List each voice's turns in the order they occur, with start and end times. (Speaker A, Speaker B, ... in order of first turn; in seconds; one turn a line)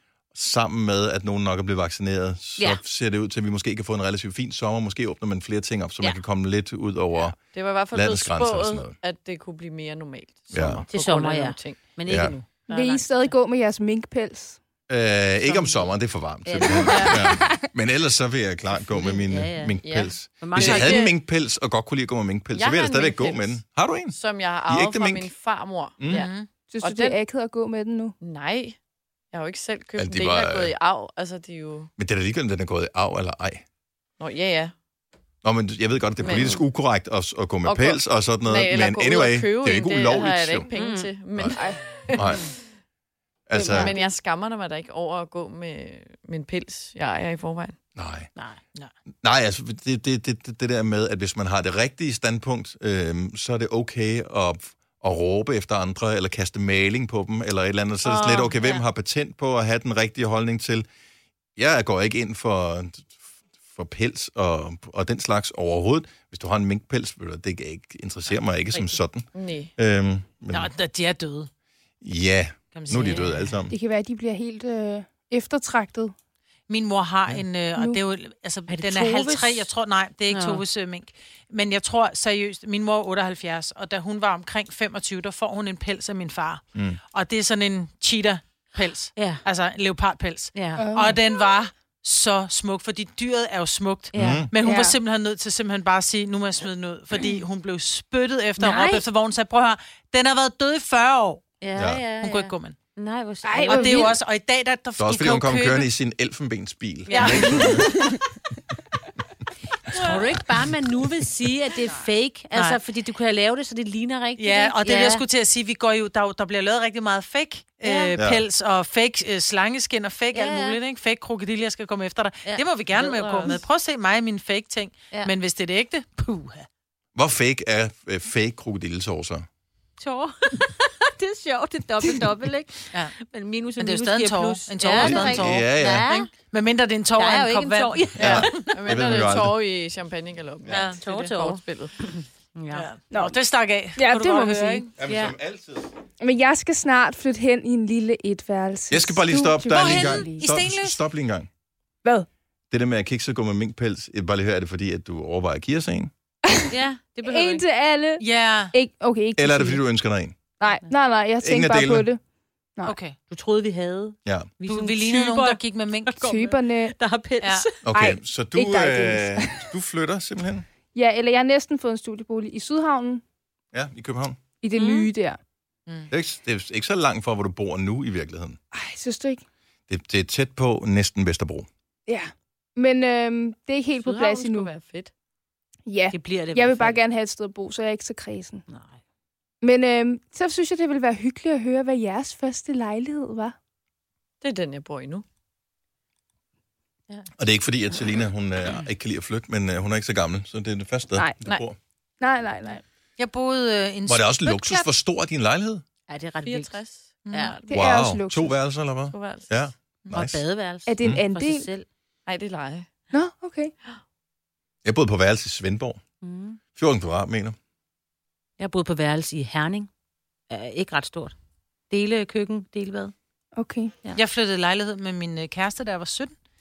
Speaker A: 0.3-8.9
Speaker B: 7.2-11.8
Speaker A: 10.5-10.8
Speaker C: 10.9-13.3
Speaker A: 12.1-12.4
Speaker D: 12.7-14.6
Speaker A: 14.9-25.3
Speaker C: 15.4-15.9
Speaker C: 16.4-17.2
Speaker B: 16.8-17.2
Speaker D: 16.9-17.7
Speaker C: 18.8-21.1
Speaker B: 19.8-21.1
Speaker B: 22.5-27.2
Speaker A: 26.0-26.3
Speaker E: 26.1-26.5
Speaker D: 26.7-28.1
Speaker B: 28.2-28.8
Speaker B: 29.3-31.9
Speaker A: 29.9-30.7
Speaker A: 32.0-33.6
Speaker B: 34.2-34.7
Speaker A: 35.4-40.7
Speaker B: 36.2-36.6
Speaker B: 37.6-42.2
Speaker C: 40.7-41.1
Speaker D: 41.5-42.2
Speaker A: 42.1-42.5
Speaker A: 43.5-43.9
Speaker D: 43.5-44.0
Speaker B: 43.7-47.8
Speaker A: 48.0-48.3
Speaker A: 49.2-60.9
Speaker C: 58.0-58.8
Speaker A: 61.5-63.1
Speaker A: 63.7-70.7
Speaker C: 68.7-69.0
Speaker B: 69.3-69.7
Speaker E: 70.5-71.5
Speaker A: 72.0-73.7
Speaker E: 72.7-73.5
Speaker C: 72.9-73.2
Speaker D: 73.7-76.1
Speaker E: 76.7-86.6
Speaker C: 78.7-79.7
Speaker C: 80.3-80.6
Speaker E: 87.1-101.4
Speaker C: 89.1-89.4
Speaker C: 90.5-90.9
Speaker D: 90.8-91.2
Speaker C: 94.1-94.5
Speaker A: 94.1-94.5
Speaker D: 94.5-95.0
Speaker C: 98.6-99.1
Speaker C: 101.6-104.1
Speaker A: 101.7-102.0
Speaker E: 102.2-102.8
Speaker D: 103.4-104.2
Speaker E: 103.7-105.9
Speaker A: 105.0-107.9
Speaker E: 107.1-107.7
Speaker C: 107.1-107.8
Speaker D: 107.5-108.0
Speaker C: 109.8-115.2
Speaker E: 112.5-112.8
Speaker E: 114.4-126.7
Speaker C: 117.8-118.1
Speaker A: 118.2-118.4
Speaker C: 120.3-120.8
Speaker C: 122.4-123.6
Speaker B: 123.3-123.6
Speaker A: 127.1-129.4
Speaker C: 130.0-136.3
Speaker E: 133.8-138.6
Speaker A: 134.9-136.1
Speaker C: 137.1-138.6
Speaker B: 138.2-141.9
Speaker A: 138.2-139.6
Speaker E: 140.7-141.3
Speaker C: 140.7-142.9
Speaker E: 142.7-144.9
Speaker D: 143.1-143.4
Speaker D: 143.9-144.9
Speaker A: 145.0-145.9
Speaker C: 145.0-145.3
Speaker D: 146.2-150.5
Speaker A: 148.9-151.5
Speaker E: 149.7-151.1
Speaker A: 152.7-156.1
Speaker C: 156.7-157.6
Speaker D: 157.2-159.8
Speaker E: 158.2-158.7
Speaker A: 159.4-160.4
Speaker D: 160.6-162.2
Speaker A: 161.4-162.1
Speaker E: 162.8-163.2
Speaker C: 163.3-167.8
Speaker A: 164.2-164.5
Speaker E: 164.7-166.2
Speaker D: 166.2-166.9
Speaker E: 167.4-167.7
Speaker A: 167.8-170.7
Speaker D: 167.9-169.7
Speaker D: 170.9-173.2
Speaker A: 173.7-174.4
Speaker D: 174.6-175.4
Speaker C: 174.7-175.1
Speaker A: 176.1-178.6
Speaker D: 178.7-179.4
Speaker A: 179.9-181.7
Speaker D: 182.1-184.7
Speaker B: 184.0-185.1
Speaker D: 185.8-188.6
Speaker C: 186.1-187.0
Speaker C: 188.7-189.0
Speaker D: 189.6-193.6
Speaker B: 194.4-195.2
Speaker A: 197.4-201.8
Speaker D: 202.2-202.8
Speaker E: 203.2-204.8
Speaker A: 204.1-205.8
Speaker C: 206.1-206.8
Speaker B: 206.4-207.7
Speaker E: 207.2-207.6
Speaker C: 207.3-207.6
Speaker D: 207.7-208.6
Speaker A: 207.7-210.4
Speaker B: 209.1-210.2
Speaker C: 210.1-211.8
Speaker D: 210.8-211.7
Speaker B: 212.2-212.9
Speaker D: 213.1-213.7
Speaker A: 214.8-216.0
Speaker C: 216.2-216.6
Speaker A: 216.8-217.6
Speaker C: 218.6-219.9
Speaker C: 220.5-221.3
Speaker C: 221.9-223.1
Speaker D: 223.5-223.9
Speaker E: 224.1-226.3